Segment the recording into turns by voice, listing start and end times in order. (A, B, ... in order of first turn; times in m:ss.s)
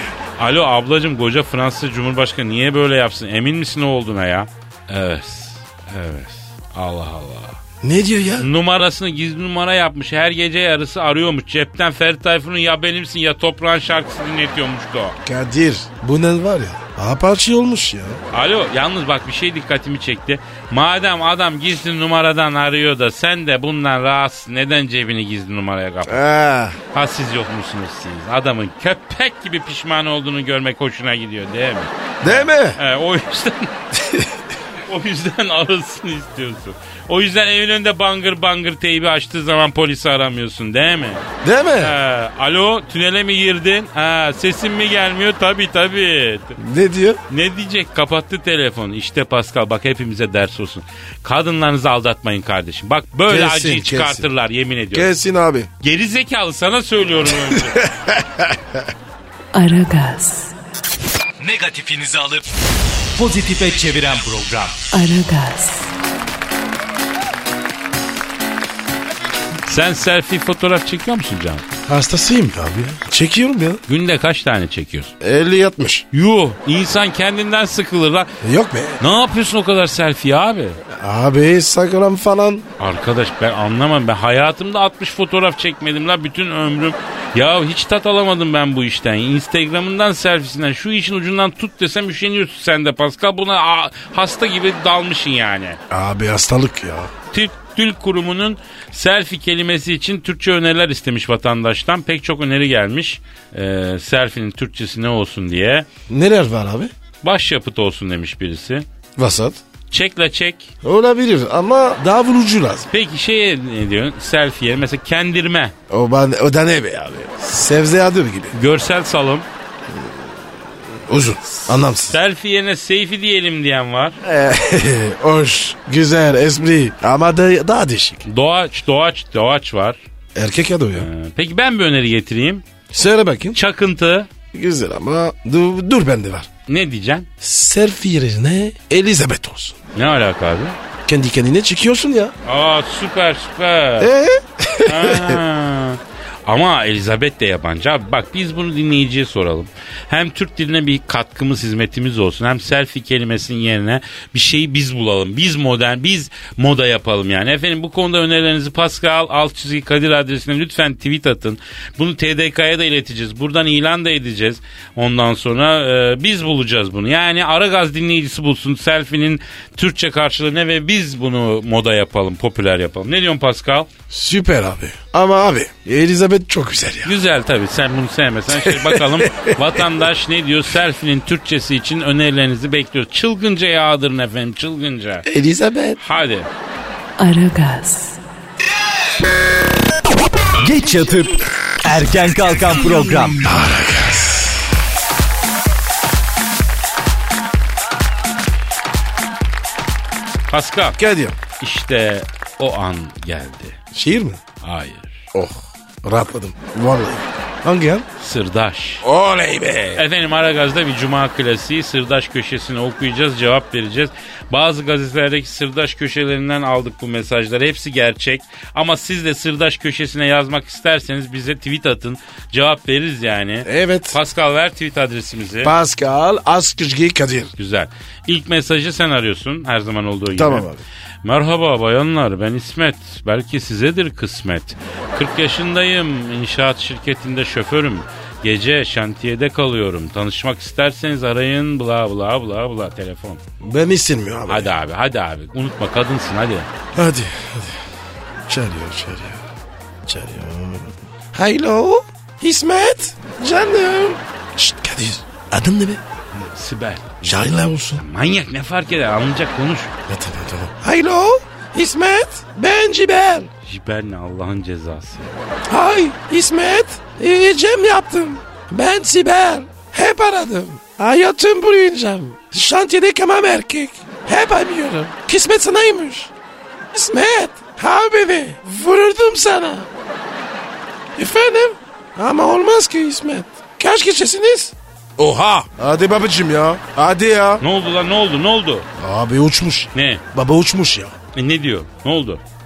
0:00.4-0:07.6 A
0:07.8-0:08.5 B
0:08.4-0:15.2 A
0:15.2-0:18.2 B
0:18.3-0:26.2 A
0:26.0-0:26.8 B
0:26.9-0:33.7 A
0:32.2-0:32.8 B
0:33.9-0:34.4 B
0:34.9-0:41.2 A
0:41.4-0:42.0 B
0:41.8-0:46.6 A
0:46.6-0:47.2 B
0:47.3-0:55.1 A
0:53.3-0:54.3 B
0:54.9-0:55.7 B
0:55.8-0:57.8 A
0:57.4-0:58.9 B
0:59.5-1:00.5 C
1:01.4-1:02.4 D
1:03.1-1:04.9 D
1:04.9-1:05.9 C
1:09.6-1:11.6 A
1:11.9-1:13.8 B
1:13.9-1:15.1 A
1:15.2-1:16.0 B
1:16.1-1:18.3 A
1:18.4-1:19.0 B
1:19.0-1:20.8 A
1:20.9-1:22.6 B
1:22.8-1:35.8 A
1:35.9-1:37.1 B
1:37.3-1:45.9 A
1:46.1-1:46.9 B
1:47.2-1:48.9 A
1:49.2-1:49.6 B
1:49.9-1:50.7 A
1:50.8-1:52.9 B
1:52.9-1:55.7 A
1:55.9-1:58.5 B
1:58.5-1:59.5 A
1:59.9-2:02.2 B
2:02.1-2:04.2 A
2:04.2-2:08.2 B
2:08.2-2:10.0 A
2:10.4-2:11.1 B
2:11.0-2:12.6 A
2:12.9-2:13.6 B
2:13.5-2:14.3 A
2:14.5-2:16.5 B
2:16.7-2:17.3 A
2:17.4-2:19.8 B
2:19.9-2:20.8 A
2:21.0-2:22.3 B
2:22.4-2:24.1 A
2:24.0-2:25.4 B
2:24.8-2:53.9 A
2:54.1-2:57.1 B
2:57.0-3:05.2 A
2:58.5-2:59.8 B
3:05.2-3:06.0 B
3:06.0-3:06.5 A
3:07.2-3:08.2 C
3:10.6-3:13.4 D
3:13.4-3:14.6 B
3:20.5-3:21.0 A
3:21.0-3:21.4 B
3:21.6-3:23.8 A
3:23.9-3:24.4 B
3:24.6-3:25.2 A
3:25.3-3:28.0 B
3:28.2-3:29.0 A
3:29.0-3:30.0 B
3:29.9-3:45.7 A
3:43.6-3:44.2 B
3:45.6-3:47.5 B
3:47.6-3:50.7 A
3:50.4-3:50.8 B
3:51.2-4:03.4 A
4:03.6-4:04.7 B
4:04.5-4:06.7 A
4:06.9-4:07.8 B
4:08.5-4:09.4 B
4:10.0-4:16.0 B
4:16.3-4:17.2 A
4:17.2-4:18.0 B
4:18.0-4:19.9 A
4:20.1-4:23.5 B
4:23.6-4:25.4 A
4:25.7-4:36.3 B
4:36.9-4:39.9 B
4:41.1-4:47.6 B
4:47.6-4:48.9 A
4:49.0-4:51.2 B
4:49.9-4:50.2 A
4:51.3-4:52.4 A